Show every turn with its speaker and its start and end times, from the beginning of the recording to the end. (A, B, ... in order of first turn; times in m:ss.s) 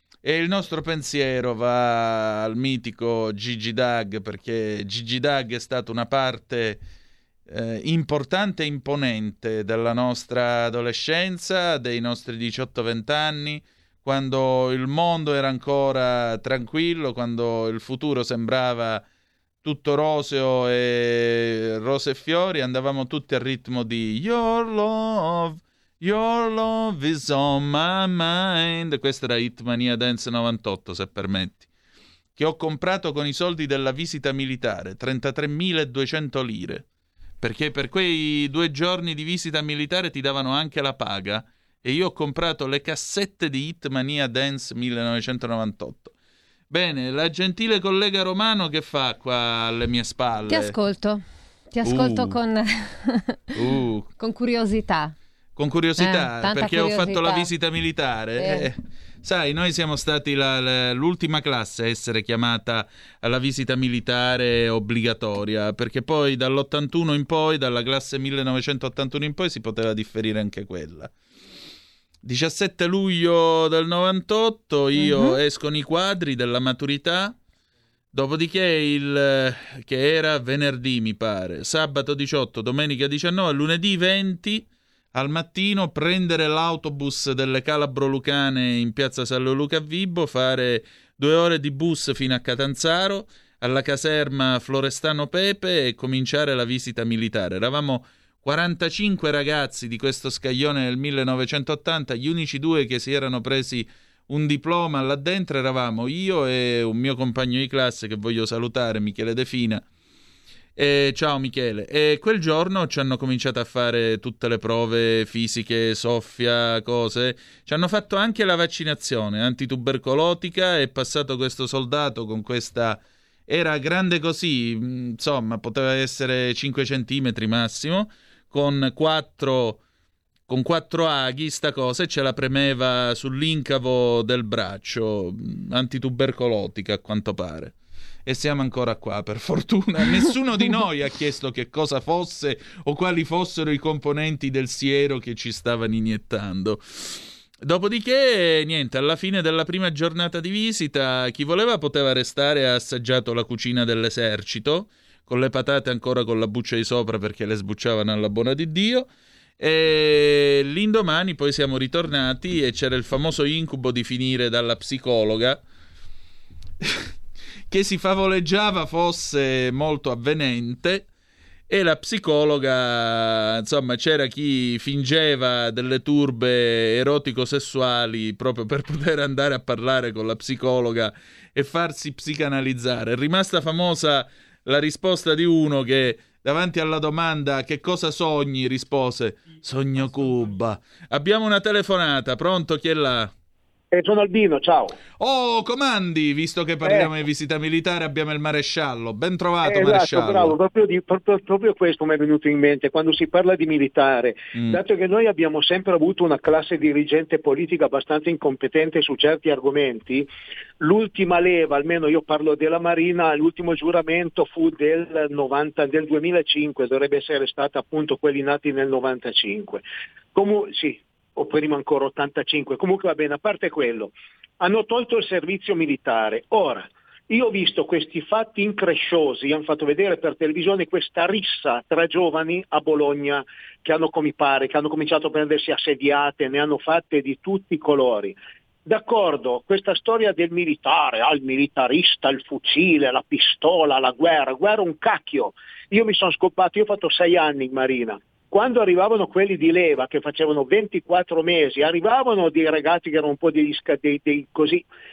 0:00.2-0:06.8 A
0:07.5-0:19.0 A
0:19.6-0:31.7 A
0:32.4-0:36.8 A
0:37.4-0:46.1 A
0:46.7-0:50.8 A
0:50.5-0:53.6 B
0:51.8-0:52.4 A
0:53.5-0:54.1 A
0:54.2-0:55.1 B
0:55.6-1:11.1 A
0:56.0-0:57.5 B
0:58.4-0:58.7 B
1:12.2-1:17.4 A
1:15.0-1:15.4 B
1:18.1-1:49.8 A
1:50.8-2:09.8 A
2:10.5-2:17.7 A
2:18.2-2:45.6 A
2:47.7-2:51.1 A
2:51.7-3:13.3 A
3:13.9-3:15.0 C
3:15.2-3:20.6 A
3:16.8-3:17.1 C
3:19.6-3:30.3 C
3:24.5-3:24.8 A
3:30.8-3:39.8 C
3:40.3-4:14.8 C